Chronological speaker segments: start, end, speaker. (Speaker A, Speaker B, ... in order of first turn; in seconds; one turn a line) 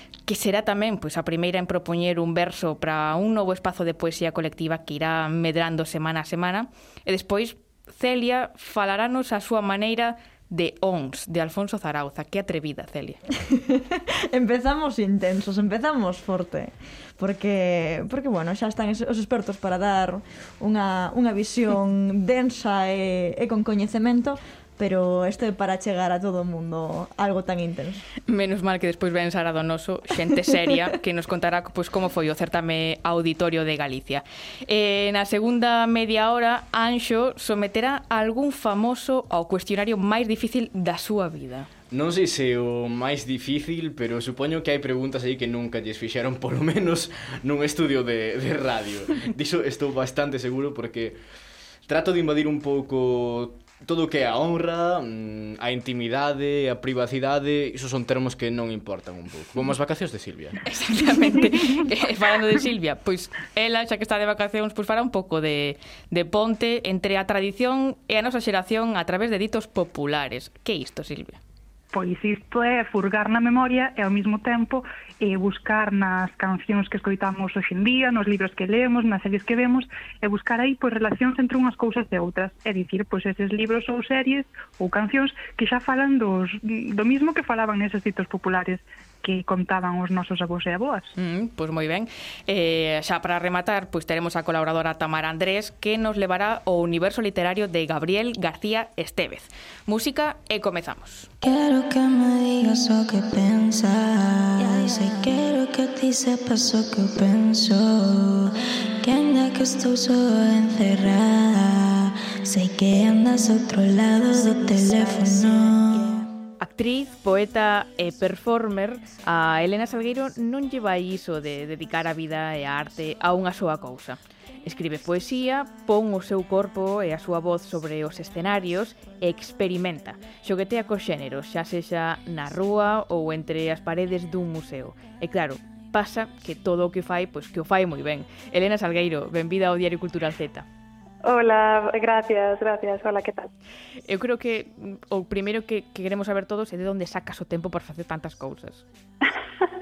Speaker A: 0.2-13.2
Speaker B: 13.4-28.1
Speaker A: 28.3-41.7
Speaker C: 41.9-51.2
Speaker C: 51.9-60.6
Speaker A: 60.6-71.4
Speaker D: 71.9-91.1
Speaker A: 91.2-101.3
Speaker E: 101.4-108.5
Speaker E: 109.0-116.1
Speaker A: 116.6-140.7
Speaker F: 141.2-143.5
Speaker A: 144.0-148.8